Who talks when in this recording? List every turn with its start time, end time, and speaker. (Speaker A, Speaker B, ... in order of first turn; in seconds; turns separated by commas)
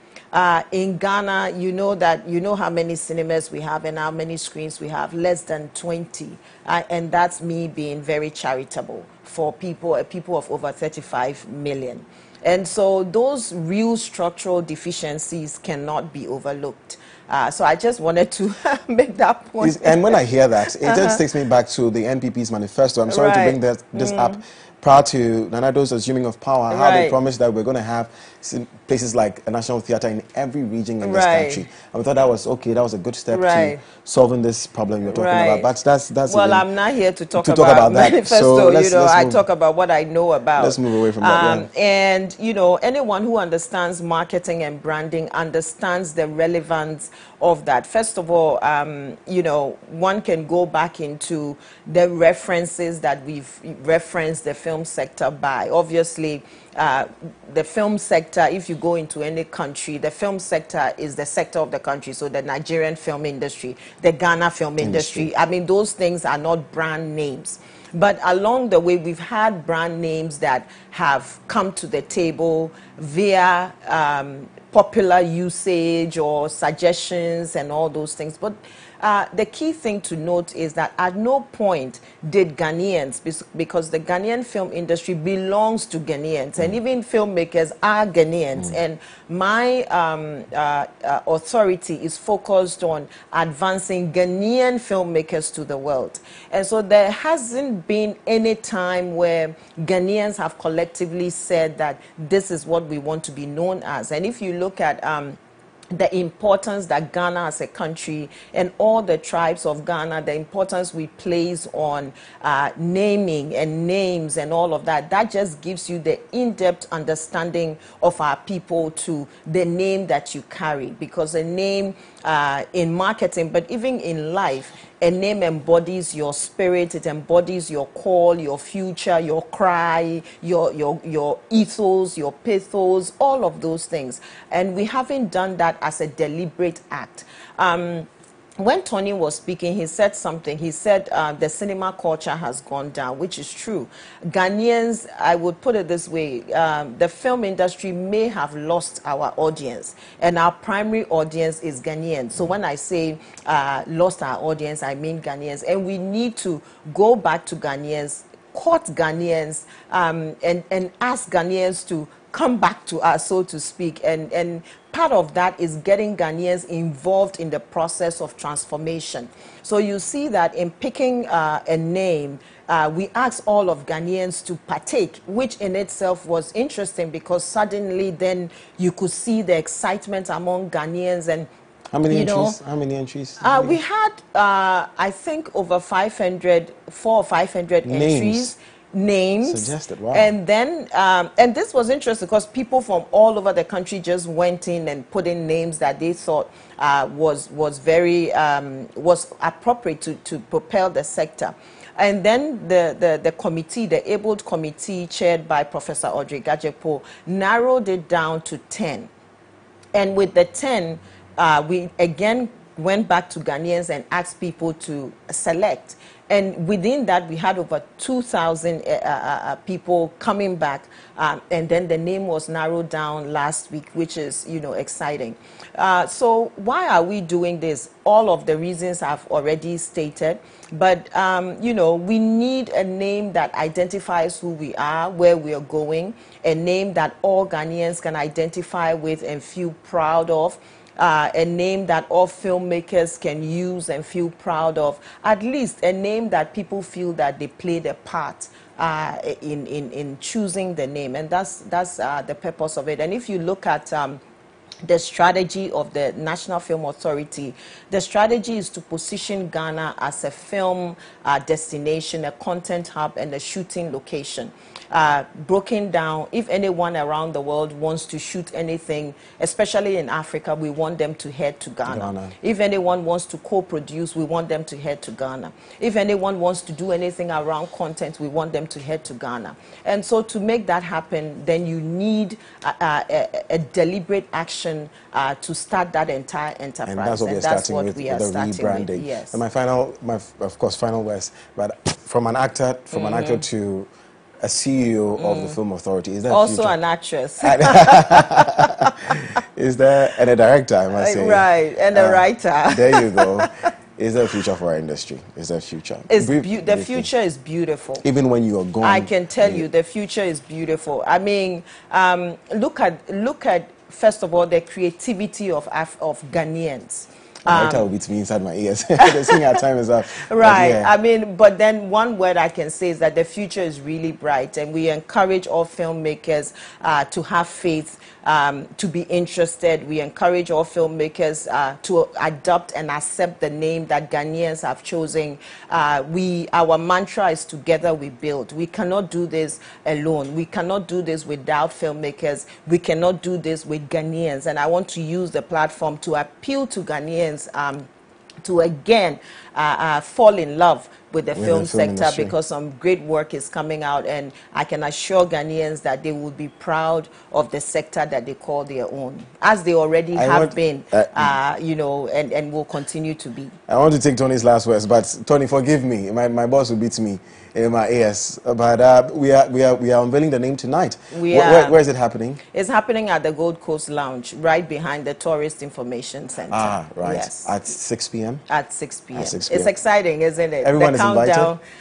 Speaker A: 0.3-20.2, Speaker B: 19.6-36.6, Speaker A: 20.8-21.2, Speaker A: 23.1-24.4, Speaker A: 26.7-27.2, Speaker A: 31.0-31.6, Speaker A: 33.3-33.8, Speaker A: 35.1-35.7, Speaker A: 36.3-105.4, Speaker B: 37.4-39.4, Speaker B: 40.6-41.7, Speaker B: 64.8-65.3, Speaker A: 105.9-138.1, Speaker A: 138.6-181.5, Speaker B: 181.9-183.8, Speaker A: 182.1-182.6, Speaker A: 183.4-209.1, Speaker B: 187.8-188.6, Speaker B: 189.4-190.3, Speaker A: 209.9-254.2, Speaker A: 254.8-289.4, Speaker B: 271.9-272.3, Speaker B: 286.9-293.9, Speaker A: 292.9-293.4, Speaker B: 294.4-296.7, Speaker A: 295.2-295.6, Speaker A: 296.3-298.8, Speaker B: 297.4-307.1, Speaker A: 300.9-303.5, Speaker A: 306.1-308.0, Speaker B: 308.0-309.6, Speaker A: 308.8-317.8, Speaker B: 317.5-320.9, Speaker A: 319.0-319.6, Speaker A: 320.2-347.9, Speaker A: 348.4-363.6, Speaker B: 351.3-352.3, Speaker B: 360.1-361.4, Speaker B: 363.7-372.4, Speaker A: 371.1-371.8, Speaker A: 372.5-377.5, Speaker B: 376.5-378.4, Speaker A: 378.5-381.6, Speaker B: 379.1-379.7, Speaker B: 380.6-381.5